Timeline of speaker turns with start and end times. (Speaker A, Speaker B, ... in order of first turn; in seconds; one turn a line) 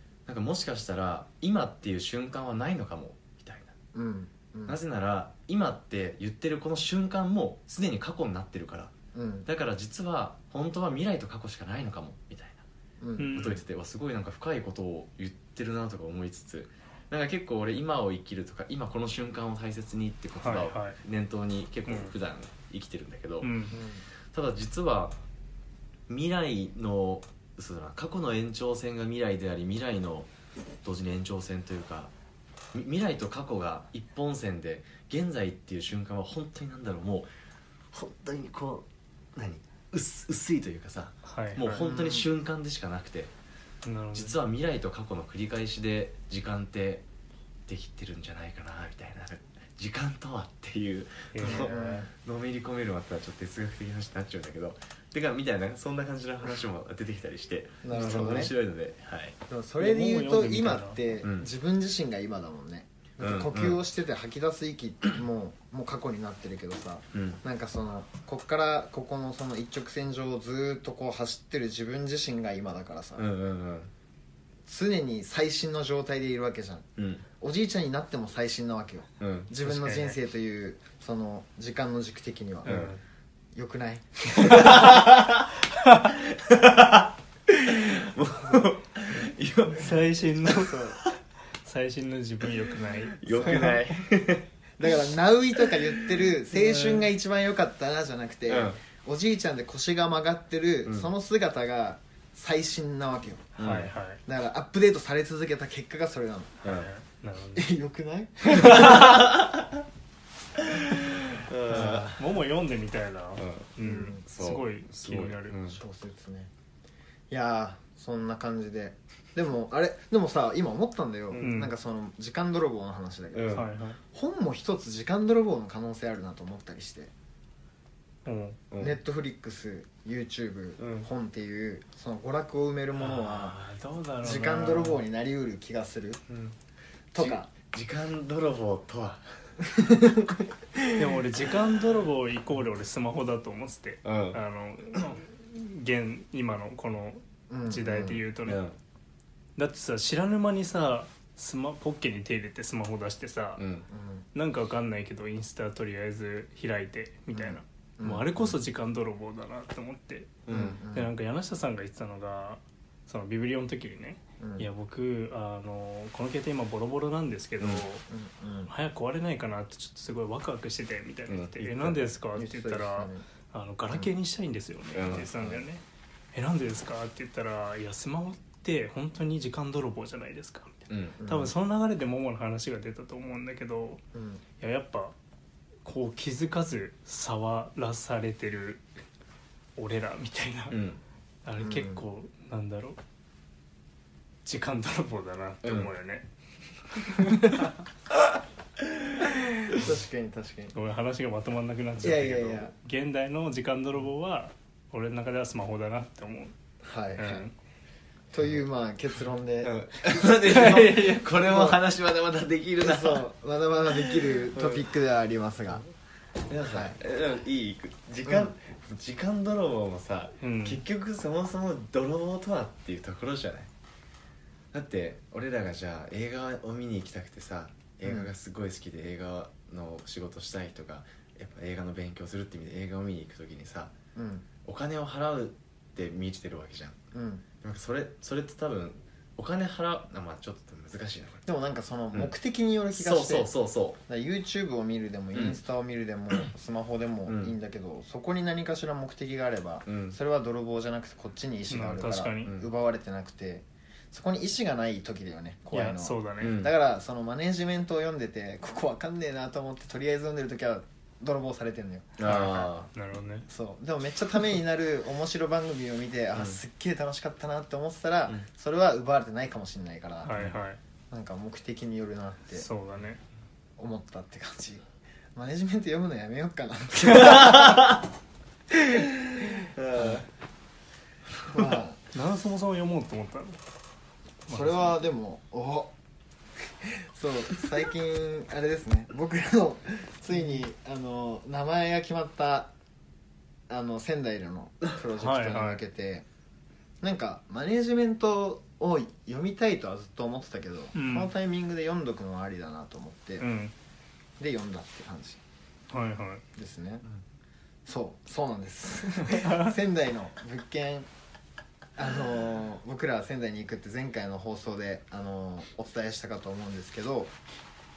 Speaker A: 0.2-3.7
Speaker B: 3.9-4.8
Speaker A: 4.7-8.9
Speaker B: 9.1-9.5
Speaker A: 9.4-12.6
Speaker B: 13.0-13.4
Speaker C: 13.2-13.6
Speaker A: 13.3-23.6
Speaker C: 20.4-21.0
Speaker C: 21.9-22.1
Speaker C: 23.4-23.7
Speaker B: 23.7-24.0
Speaker A: 24.3-25.1
Speaker A: 26.1-30.3
Speaker A: 30.8-32.1
Speaker A: 32.7-37.3
Speaker A: 37.9-43.3
Speaker C: 41.2-41.8
Speaker B: 41.7-42.3
Speaker C: 43.9-44.3
Speaker A: 44.1-47.0
Speaker A: 47.7-59.4
Speaker C: 51.3-52.0
Speaker B: 51.4-52.1
Speaker B: 57.8-58.5
Speaker C: 57.9-58.4
Speaker B: 59.5-73.2
Speaker C: 59.8-61.0
Speaker A: 61.2-61.5
Speaker A: 63.2-63.8
Speaker A: 67.1-67.4
Speaker A: 73.2-73.9
Speaker B: 74.7-76.9
Speaker A: 77.0-77.2
Speaker B: 77.4-82.8
Speaker A: 79.2-79.5
Speaker C: 79.6-80.2
Speaker A: 82.7-82.9
Speaker C: 82.7-83.0
Speaker B: 83.5-84.9
Speaker C: 84.4-84.8
Speaker A: 84.4-85.5
Speaker A: 86.0-90.1
Speaker C: 89.7-90.8
Speaker B: 90.5-91.0
Speaker C: 91.6-94.0
Speaker A: 93.2-94.5
Speaker B: 93.3-93.7
Speaker B: 94.8-103.6
Speaker C: 96.5-97.0
Speaker A: 98.5-98.8
Speaker A: 103.6-103.9
Speaker C: 103.6-104.2
Speaker B: 104.2-106.5
Speaker C: 106.6-107.7
Speaker B: 107.5-109.2
Speaker A: 108.5-109.8
Speaker C: 108.6-108.9
Speaker A: 110.6-112.1
Speaker B: 111.7-112.2
Speaker C: 111.7-115.6
Speaker A: 113.4-113.7
Speaker B: 113.8-114.2
Speaker A: 114.3-115.8
Speaker B: 115.7-116.5
Speaker B: 117.3-127.1
Speaker C: 121.3-121.7
Speaker A: 123.3-123.7
Speaker C: 123.5-124.0
Speaker C: 128.2-128.6
Speaker A: 128.7-129.0
Speaker B: 128.8-133.6
Speaker A: 130.8-131.1
Speaker C: 133.0-135.0
Speaker B: 134.2-136.2
Speaker A: 136.3-136.6
Speaker B: 137.1-137.5
Speaker A: 137.2-139.2
Speaker B: 139.7-140.3
Speaker C: 140.9-148.6
Speaker A: 144.0-144.4
Speaker B: 147.5-148.2
Speaker A: 148.4-148.8
Speaker C: 149.6-153.6
Speaker A: 153.6-153.9
Speaker B: 153.9-154.2
Speaker C: 154.3-168.0
Speaker B: 157.3-158.6
Speaker A: 160.4-160.8
Speaker B: 160.5-161.1
Speaker B: 164.4-164.7
Speaker B: 168.1-168.7
Speaker C: 168.7-184.0
Speaker A: 171.3-172.0
Speaker B: 172.4-173.2
Speaker A: 174.9-175.3
Speaker B: 175.1-175.6
Speaker A: 180.9-181.2
Speaker B: 181.2-181.5
Speaker B: 184.1-184.4
Speaker C: 184.6-185.1
Speaker C: 185.8-188.8
Speaker C: 189.8-190.8
Speaker A: 190.7-191.0
Speaker C: 191.4-193.0
Speaker B: 191.6-192.0
Speaker C: 194.4-196.2
Speaker A: 195.6-195.9
Speaker C: 197.0-197.7
Speaker B: 199.7-200.7
Speaker C: 200.7-206.5
Speaker B: 202.0-202.7
Speaker B: 206.8-207.5
Speaker C: 207.2-207.5
Speaker B: 208.3-209.8
Speaker A: 209.6-213.3
Speaker C: 210.4-211.2
Speaker B: 211.4-211.8
Speaker B: 212.8-215.8
Speaker A: 213.9-214.9
Speaker A: 216.5-223.7
Speaker B: 216.6-217.0
Speaker B: 218.2-218.5
Speaker C: 220.4-220.8
Speaker A: 224.7-233.9
Speaker B: 228.0-228.3
Speaker B: 234.1-234.5
Speaker A: 234.6-237.0
Speaker B: 237.1-237.4
Speaker A: 237.6-241.4
Speaker B: 241.5-243.5
Speaker A: 242.9-244.0
Speaker B: 244.1-262.7
Speaker A: 245.3-245.6
Speaker A: 247.3-247.6
Speaker A: 249.9-250.2
Speaker C: 251.7-252.5
Speaker C: 255.7-256.5
Speaker A: 256.4-256.7
Speaker A: 262.2-262.9
Speaker C: 262.2-263.5
Speaker B: 263.5-270.3
Speaker C: 270.2-270.8
Speaker B: 271.1-272.7
Speaker C: 272.5-273.2
Speaker B: 273.8-274.8
Speaker B: 275.3-277.9
Speaker A: 277.0-277.9
Speaker A: 278.9-280.2
Speaker B: 279.6-280.2
Speaker B: 281.5-282.0
Speaker C: 282.1-283.6
Speaker C: 284.5-285.0
Speaker B: 284.5-285.9
Speaker B: 286.8-292.7
Speaker B: 293.7-296.2
Speaker C: 295.2-295.8
Speaker B: 297.0-303.5
Speaker C: 300.9-301.3
Speaker C: 303.4-303.7
Speaker B: 304.4-305.4
Speaker C: 305.9-306.4
Speaker B: 306.6-307.0
Speaker B: 307.9-311.1
Speaker C: 309.4-309.7
Speaker B: 311.9-317.3